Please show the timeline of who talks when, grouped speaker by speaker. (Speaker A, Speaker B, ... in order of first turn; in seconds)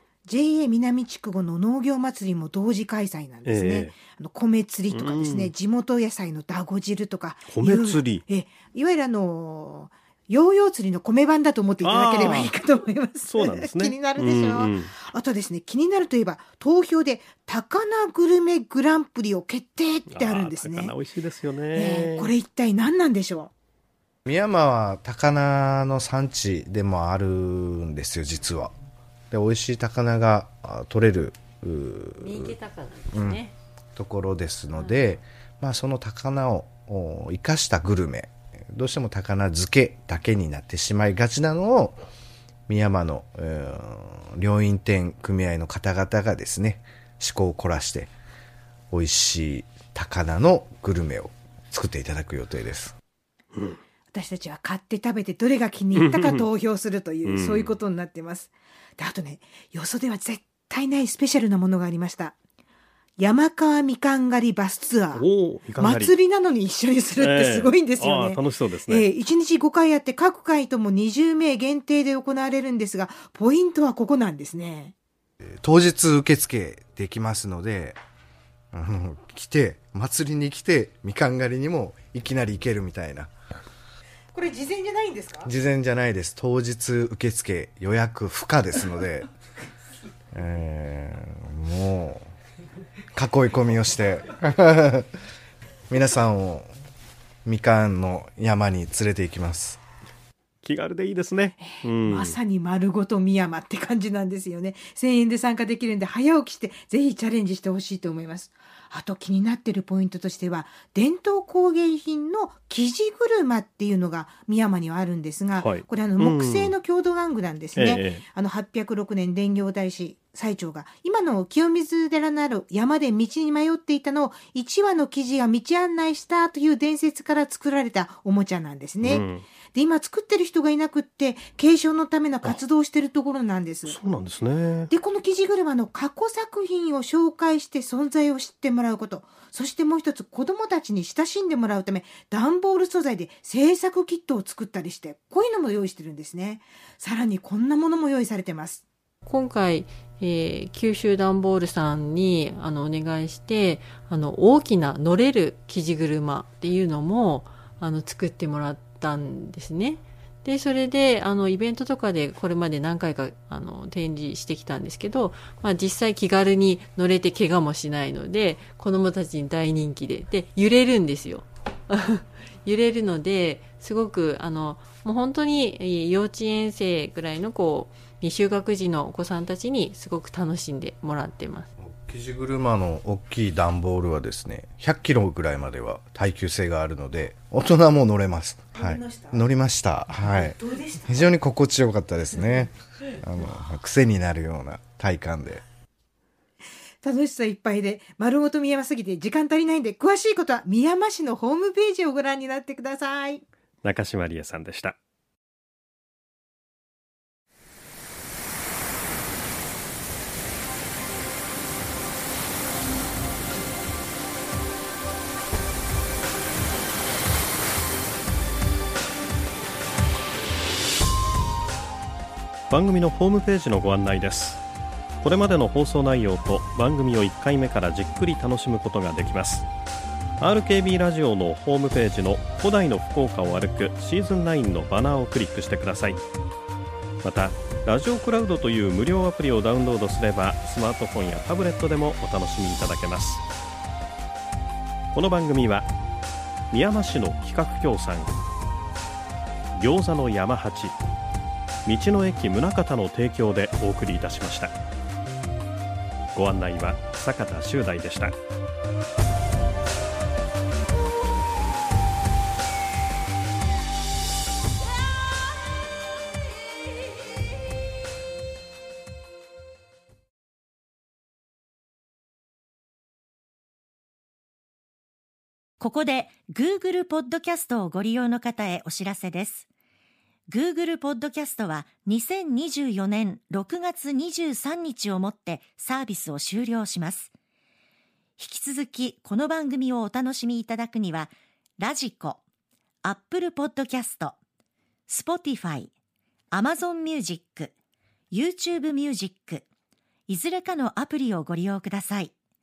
Speaker A: 0.3-20.9, 21.7-23.5, 54.1-62.4, 63.2-65.2, 65.8-74.9, 84.3-85.5, 101.6-134.0, 134.9-148.8, 188.8-189.4, 190.1-191.3, 197.0-203.4
Speaker B: 3.5-4.0, 4.9-5.5, 7.5-8.3, 11.8-12.5, 13.2-14.9, 20.1-22.3, 56.0-56.5, 57.2-57.7, 65.1-66.1, 67.2-69.0, 100.6-102.4, 115.6-116.7, 117.8-118.3, 129.0-129.5, 133.9-134.9, 203.8-205.0, 222.7-224.6, 225.2-229.7, 230.4-236.2, 237.2-243.4, 245.1-245.9, 246.7-248.3, 249.8-251.0, 251.8-254.8, 256.3-258.4
Speaker C: 24.3-28.7, 29.3-32.5, 33.1-33.4, 34.0-42.0, 42.7-48.1, 48.9-52.9, 75.6-78.0, 78.7-83.3, 85.5-89.3, 90.3-92.3, 93.2-95.1, 95.9-96.7, 97.5-99.8, 181.8-195.6
Speaker D: 32.2-33.5, 34.8-35.0, 149.3-181.7
Speaker E: 275.8-279.7, 280.5-287.3, 288.4-292.4, 293.1-294.4, 295.1-295.9, 296.5-297.7, 298.3-299.7, 300.3-302.3